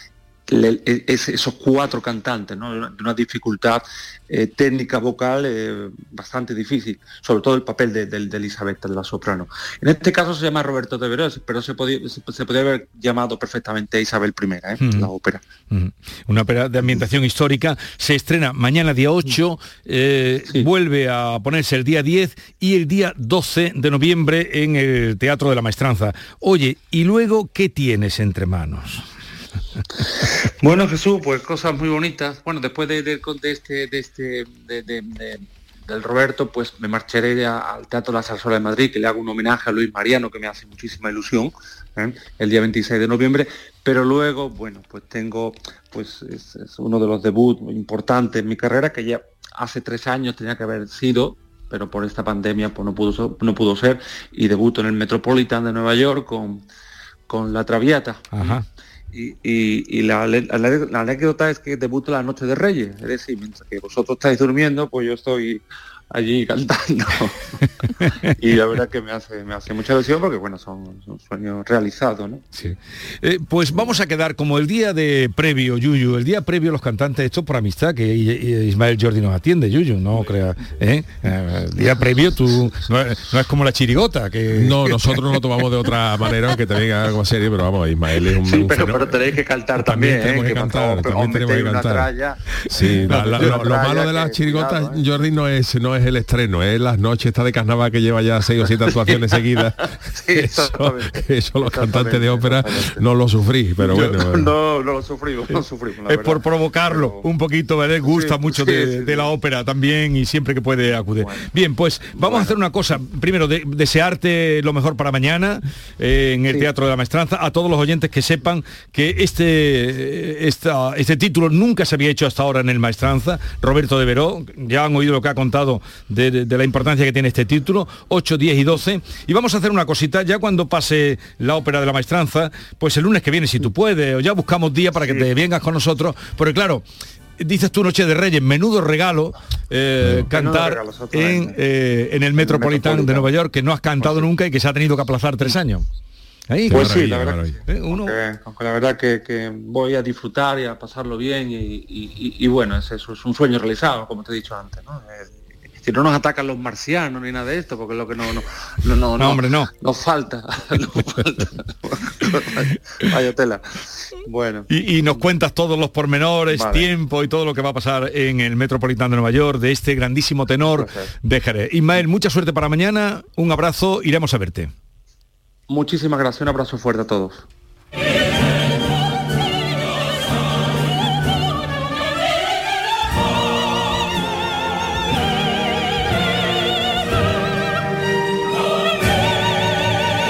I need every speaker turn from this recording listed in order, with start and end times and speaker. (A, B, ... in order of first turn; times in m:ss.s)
0:00.5-0:15.4 A
0:14.8-0:15.1 B
0:15.7-0:29.0 B
0:30.6-0:56.6 A
0:57.3-0:58.6 A
0:58.3-0:58.6 B
0:59.1-1:07.4 A
1:08.4-1:12.4 A
1:12.5-1:25.2 B
1:24.5-1:29.2 C
1:28.4-1:35.0 A
1:29.8-1:32.1 C
1:32.7-1:39.8 C
1:32.8-1:33.7 B
1:39.0-1:41.1 A
1:40.4-1:44.5 C
1:41.6-1:43.0 A
1:43.8-1:47.2 A
1:46.1-2:16.8 B
1:48.0-1:49.3 A
1:51.2-1:51.5 A
1:52.2-1:52.5 A
2:17.4-2:25.8 B
2:20.3-2:21.6 A
2:22.4-2:23.3 A
2:24.0-2:24.3 A
2:26.5-2:27.1 B
2:26.7-2:27.5 C
2:26.7-2:44.7 A
2:27.7-2:28.1 B
2:39.2-2:39.7 B
2:44.7-2:54.7 B
2:46.5-2:46.9 A
2:50.7-2:51.1 A
2:55.7-2:57.4 A